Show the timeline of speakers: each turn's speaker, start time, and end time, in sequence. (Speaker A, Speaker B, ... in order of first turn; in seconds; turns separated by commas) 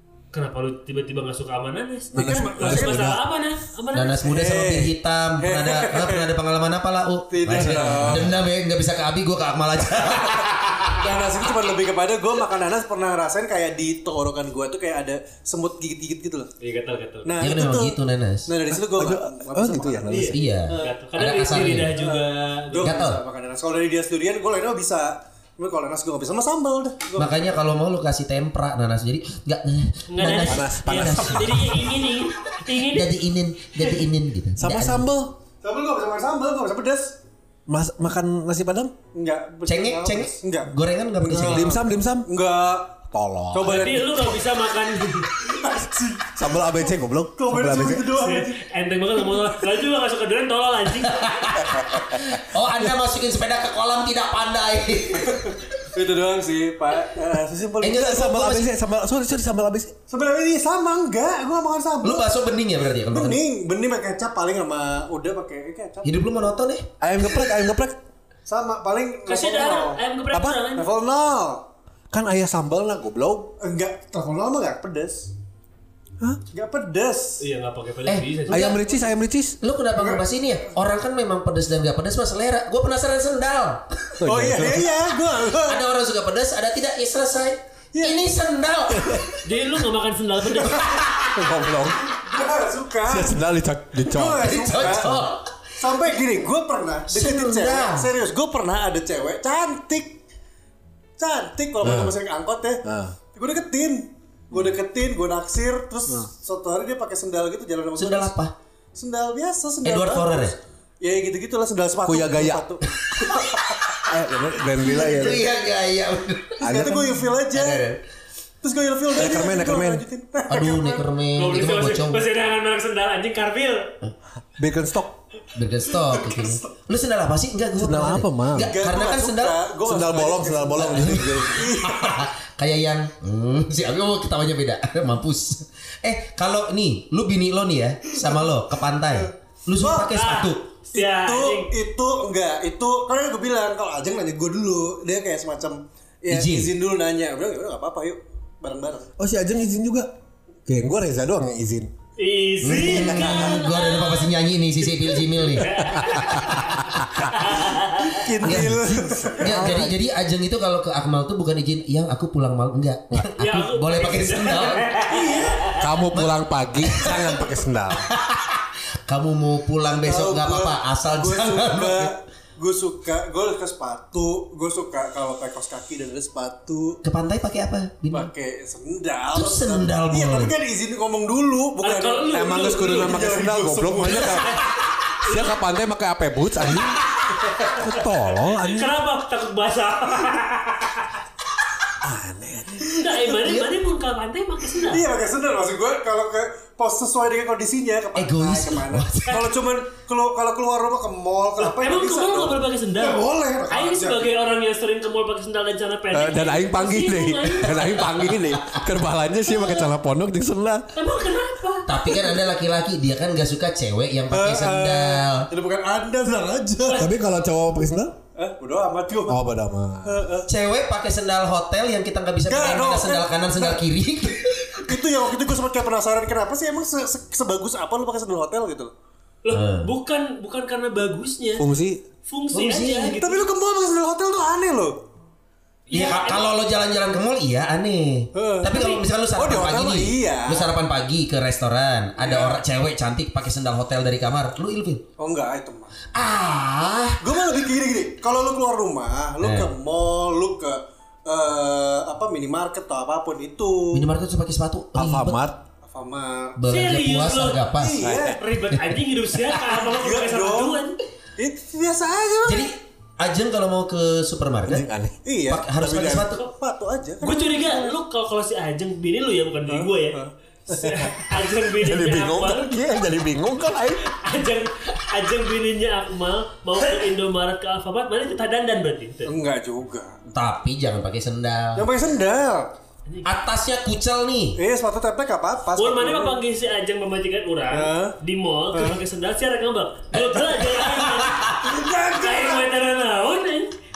Speaker A: 0.3-4.2, Speaker B: 2.1-3.2, Speaker C: 2.1-3.2, Speaker D: 3.9-11.3, Speaker C: 4.2-6.3, Speaker C: 7.3-8.3, Speaker B: 7.5-8.4, Speaker C: 10.9-16.5, Speaker A: 16.6-17.4, Speaker C: 17.2-18.0, Speaker D: 17.4-18.5, Speaker C: 18.5-21.0, Speaker B: 18.7-20.4, Speaker A: 20.1-23.0, Speaker D: 20.2-22.0, Speaker C: 22.0-27.4, Speaker D: 22.8-23.2, Speaker D: 27.2-32.0, Speaker A: 30.1-33.1, Speaker B: 30.4-32.0, Speaker D: 32.7-35.1, Speaker B: 34.6-35.4, Speaker C: 35.6-37.2, Speaker B: 37.7-38.9, Speaker C: 39.1-43.0, Speaker D: 39.7-41.7, Speaker B: 41.4-42.3, Speaker B: 43.1-44.1, Speaker C: 43.5-44.4, Speaker A: 43.6-45.3, Speaker C: 45.4-48.6, Speaker B: 46.4-48.1, Speaker A: 48.1-51.5, Speaker D: 51.0-55.8, Speaker B: 51.6-52.4, Speaker C: 55.3-58.1, Speaker D: 57.8-58.7, Speaker B: 57.8-60.0, Speaker C: 60.1-62.4, Speaker D: 62.0-63.4, Speaker C: 63.0-66.1, Speaker D: 66.0-67.5, Speaker B: 67.0-68.0, Speaker C: 68.5-70.0, Speaker A: 69.3-70.9, Speaker B: 70.3-70.6, Speaker C: 70.8-71.7, Speaker B: 72.1-73.5, Speaker C: 73.6-75.3, Speaker C: 76.5-77.4, Speaker A: 77.4-79.0, Speaker D: 78.1-78.8, Speaker B: 78.5-79.6, Speaker D: 79.6-84.2, Speaker C: 80.0-80.2, Speaker B: 84.2-84.9, Speaker C: 84.2-85.8, Speaker D: 85.5-89.4, Speaker C: 87.9-88.2, Speaker B: 88.9-89.3, Speaker A: 89.5-91.0, Speaker D: 90.7-91.5, Speaker B: 91.3-92.1, Speaker C: 92.1-93.4, Speaker B: 93.1-94.5, Speaker C: 94.0-95.3, Speaker D: 94.4-95.6, Speaker C: 95.8-100.2, Speaker D: 97.1-98.1, Speaker C: 101.2-102.8, Speaker B: 101.8-102.2, Speaker B: 102.8-103.2, Speaker C: 103.3-108.3, Speaker D: 108.0-108.5, Speaker C: 109.0-113.8, Speaker D: 109.8-110.6, Speaker B: 112.1-112.7, Speaker D: 113.1-113.6, Speaker B: 114.0-115.4, Speaker D: 114.8-116.7, Speaker C: 115.0-115.3, Speaker C: 116.6-117.9, Speaker B: 116.6-117.2, Speaker D: 117.5-118.0, Speaker C: 118.6-121.1, Speaker B: 119.2-120.0, Speaker D: 120.5-122.3, Speaker A: 121.3-123.9, Speaker B: 124.6-125.2, Speaker D: 125.5-129.6, Speaker C: 126.1-126.7, Speaker B: 127.8-128.7, Speaker C: 128.6-132.3, Speaker B: 129.8-131.7, Speaker D: 130.8-140.7, Speaker C: 139.8-140.2, Speaker A: 140.1-141.7, Speaker C: 140.9-149.1, Speaker D: 146.3-146.7, Speaker B: 149.2-150.1, Speaker B: 150.7-151.9, Speaker A: 152.2-154.4, Speaker D: 152.6-155.9, Speaker B: 152.7-153.6, Speaker A: 155.4-158.3, Speaker B: 155.9-157.2, Speaker C: 158.1-159.9, Speaker D: 158.4-164.8, Speaker B: 158.4-159.9, Speaker A: 163.4-165.8, Speaker C: 165.1-165.7, Speaker B: 165.8-168.1, Speaker D: 166.1-167.4, Speaker D: 167.9-172.1, Speaker C: 170.0-177.0, Speaker D: 177.0-178.3, Speaker C: 178.1-184.6, Speaker D: 179.3-180.5, Speaker A: 181.8-183.2, Speaker B: 182.3-187.0, Speaker A: 185.2-185.5, Speaker C: 187.4-187.8, Speaker B: 187.5-189.0, Speaker A: 188.6-191.1, Speaker B: 192.0-193.1, Speaker A: 193.0-195.1, Speaker D: 193.4-193.7, Speaker C: 194.9-204.3, Speaker D: 198.2-199.6, Speaker A: 201.6-208.2, Speaker B: 206.1-210.9, Speaker D: 208.4-208.8, Speaker A: 210.9-211.9, Speaker D: 211.9-215.5, Speaker C: 214.3-217.1, Speaker B: 217.0-218.2, Speaker C: 218.4-219.4, Speaker B: 219.3-220.2, Speaker C: 220.1-220.5, Speaker D: 220.5-225.0, Speaker C: 222.5-223.8, Speaker C: 224.8-228.9, Speaker A: 229.4-231.7, Speaker D: 229.5-229.9, Speaker B: 231.6-232.0, Speaker A: 232.3-233.5, Speaker D: 232.5-233.2, Speaker C: 233.1-235.0, Speaker A: 235.9-236.5, Speaker D: 235.9-245.0, Speaker C: 238.3-238.8, Speaker A: 238.7-239.0, Speaker C: 239.3-240.7, Speaker C: 242.2-242.6, Speaker C: 245.2-245.9, Speaker D: 246.1-247.4, Speaker C: 247.2-254.1, Speaker D: 249.4-249.7, Speaker D: 253.9-255.4, Speaker B: 255.0-255.6, Speaker C: 255.8-256.6, Speaker D: 256.6-258.0, Speaker A: 256.6-261.0, Speaker C: 257.8-258.4, Speaker B: 258.0-258.4, Speaker C: 259.9-260.9, Speaker C: 261.4-262.7, Speaker D: 262.5-264.9, Speaker B: 264.7-265.2, Speaker C: 265.2-267.9, Speaker D: 265.5-266.4, Speaker A: 267.2-272.8, Speaker C: 269.7-270.3, Speaker B: 270.7-274.1, Speaker A: 274.0-279.3, Speaker C: 279.3-280.2, Speaker D: 280.3-281.9, Speaker C: 281.8-282.7, Speaker D: 283.2-284.6, Speaker C: 284.6-286.4, Speaker A: 285.8-293.7, Speaker C: 287.7-288.2, Speaker C: 288.7-289.0, Speaker D: 290.1-291.6, Speaker C: 291.6-292.7